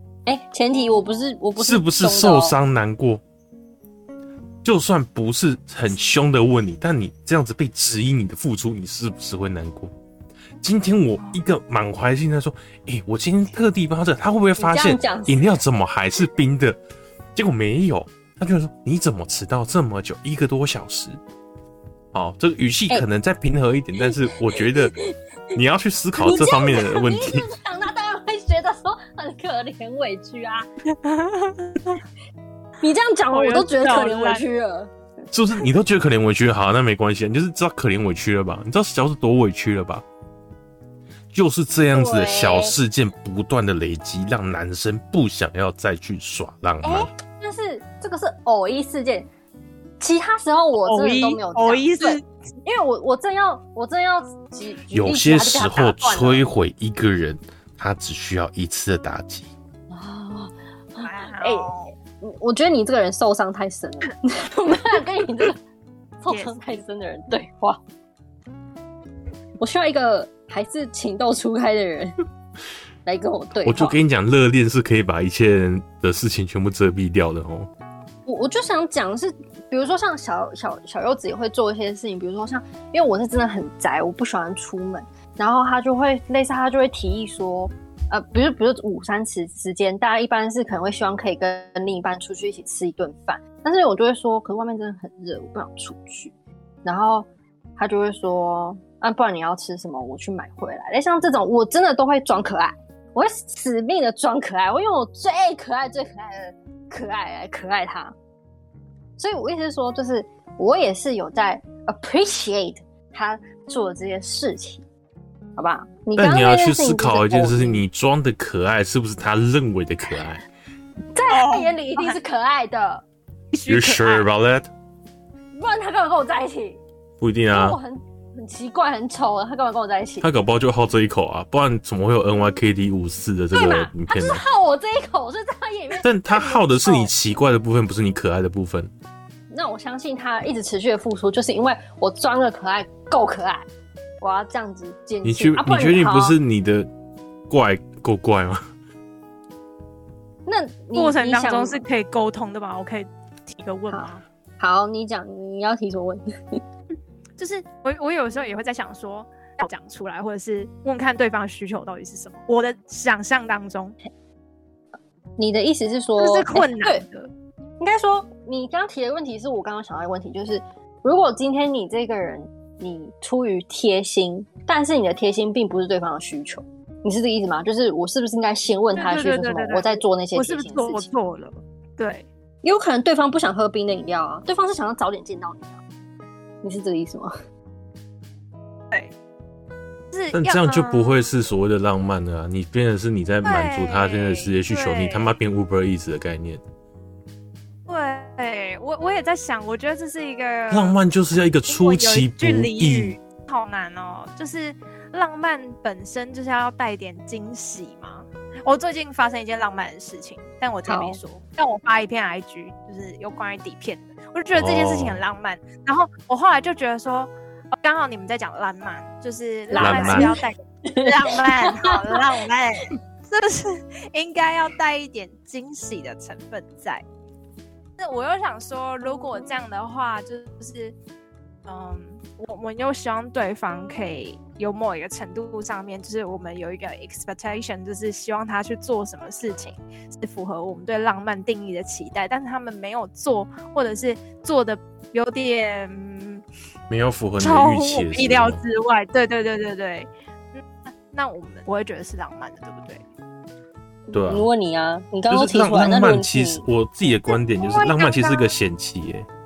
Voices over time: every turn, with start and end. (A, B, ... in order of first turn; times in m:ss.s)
0:00.3-0:02.6 A
0:01.6-0:03.2 B
0:04.6-0:09.9 B
0:10.6-0:16.8 B
0:14.6-0:15.6 A
0:17.4-0:21.2 B
0:22.1-0:24.9 B
0:24.0-0:25.2 A
0:25.5-0:27.5 B
0:26.2-0:30.7 A
0:31.0-0:32.0 C
0:32.8-0:34.9 A
0:33.3-0:34.4 C
0:35.3-0:40.0 B
0:41.3-0:47.1 B
0:41.9-0:42.8 A
0:46.8-0:49.3 A
0:50.0-0:56.4 A
0:50.8-0:52.2 C
0:54.9-0:59.5 B
0:59.9-1:05.6 A
1:01.0-1:01.9 C
1:06.2-1:07.8 A
1:06.3-1:06.6 C
1:09.6-1:12.1 A
1:13.0-1:14.0 A
1:13.6-1:17.7 B
1:18.3-1:48.1 A
1:49.2-1:54.8 A
1:55.6-1:57.8 A
1:56.2-2:00.4 B
2:01.1-2:03.0 A
2:01.3-2:02.2 C
2:03.5-2:04.3 C
2:03.7-2:04.7 B
2:05.6-2:06.8 A
2:07.2-2:07.8 B
2:07.5-2:10.3 A
2:10.2-2:14.4 B
2:13.5-2:17.1 A
2:16.0-2:18.9 B
2:19.5-2:23.6 A
2:24.2-2:26.4 A
2:25.2-2:26.9 B
2:27.5-2:28.6 B
2:30.4-2:31.8 A
2:30.9-2:34.2 C
2:33.9-2:36.6 A
2:37.4-2:43.9 C
2:45.4-2:47.0 A
2:46.2-2:47.3 C
2:47.8-3:01.1 A
2:58.9-3:02.3 C
3:02.6-3:05.8 A
3:06.6-3:07.3 A
3:10.1-3:11.2 C
3:10.3-3:16.6 B
3:13.4-3:15.3 C
3:17.9-3:21.0 C
3:20.7-3:23.2 B
3:21.7-3:47.0 C
3:30.8-3:31.2 A
3:34.5-3:35.2 B
3:39.7-3:42.2 A
3:39.8-3:40.3 B
3:48.0-3:50.9 C
3:51.6-4:06.4 C
4:06.9-4:08.6 B
4:07.4-4:13.0 C
4:14.1-4:16.7 A
4:14.1-4:14.5 B
4:15.3-4:19.3 B
4:17.6-4:18.5 C